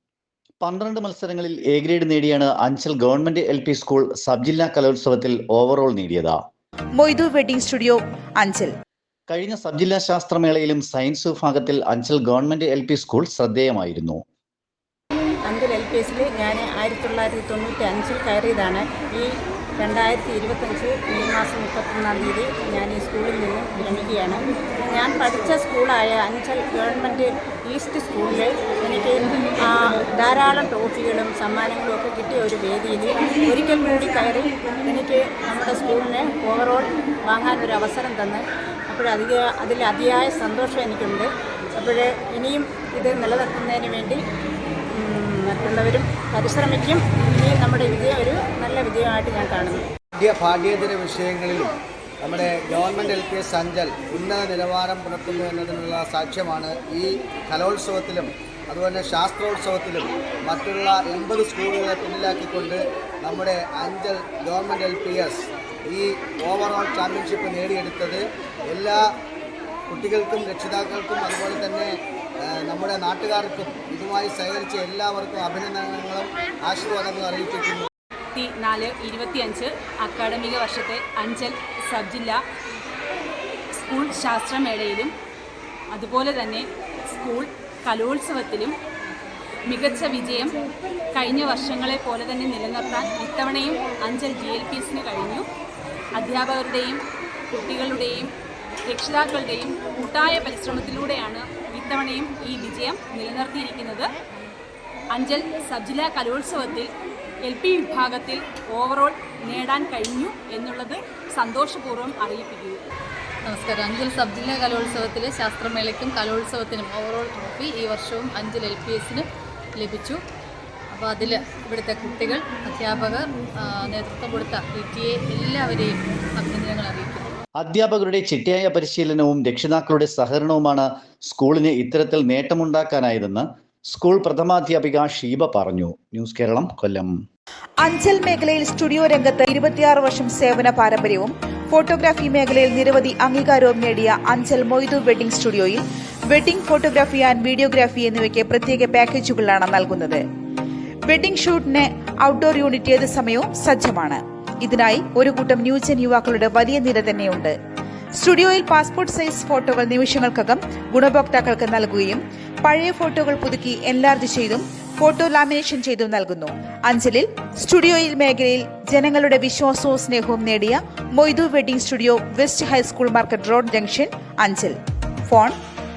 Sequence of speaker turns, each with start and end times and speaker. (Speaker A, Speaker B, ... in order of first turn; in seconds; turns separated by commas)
Speaker A: 0.6-6.4, Speaker B: 7.0-8.7, Speaker A: 9.3-14.2, Speaker C: 15.5-44.2, Speaker C: 44.9-49.9, Speaker D: 50.1-69.0, Speaker D: 69.9-71.9, Speaker D: 72.5-77.9, Speaker E: 78.3-82.4, Speaker E: 83.7-85.1, Speaker E: 85.9-88.8, Speaker E: 89.7-90.5, Speaker E: 91.1-95.5, Speaker E: 96.2-98.3, Speaker E: 98.9-104.1, Speaker E: 105.1-106.9, Speaker E: 107.5-112.8, Speaker F: 113.5-120.2, Speaker F: 120.9-127.3, Speaker A: 127.6-137.2, Speaker B: 137.8-150.2, Speaker B: 151.1-157.6, Speaker B: 158.2-175.6